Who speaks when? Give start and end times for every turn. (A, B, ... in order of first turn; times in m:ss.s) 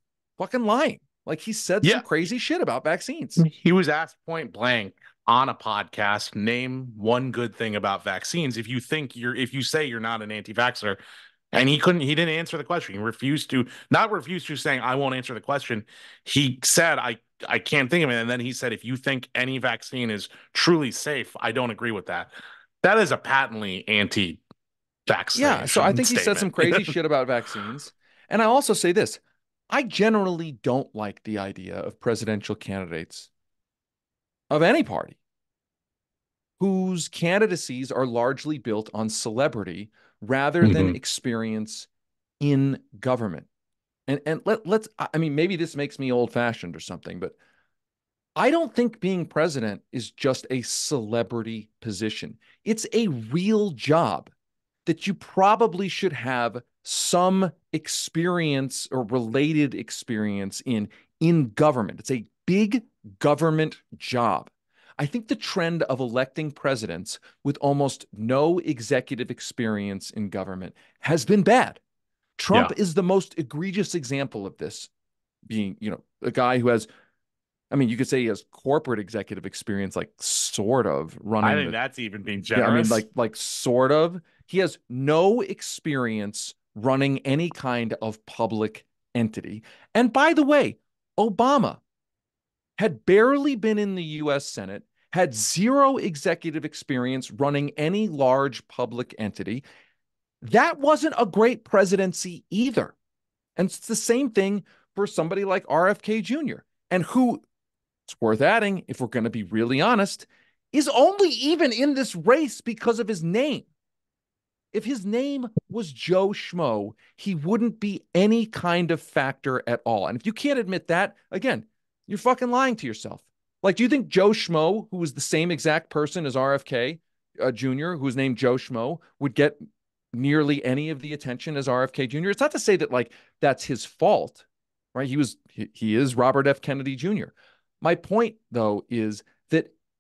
0:00.4-0:03.4 A
0:03.4-0:11.0 B
0:11.5-0:22.3 B
0:22.8-0:24.4 B
0:25.1-0:26.9 B
0:25.4-0:33.3 A
0:34.5-0:35.2 A
0:36.6-0:41.9 A
0:40.6-0:41.0 B
0:42.4-0:43.5 A
0:44.1-0:47.4 A
0:48.4-0:54.3 A
0:54.9-1:11.8 A
1:12.4-1:14.9 A
1:15.5-1:16.9 A
1:17.7-1:21.8 A
1:21.4-1:23.0 B
1:22.5-1:31.8 A
1:32.8-1:39.6 A
1:40.4-1:43.0 A
1:43.6-1:47.4 A
1:48.1-1:53.7 A
1:54.7-2:09.6 A
2:10.1-2:14.4 A
2:15.0-2:19.7 A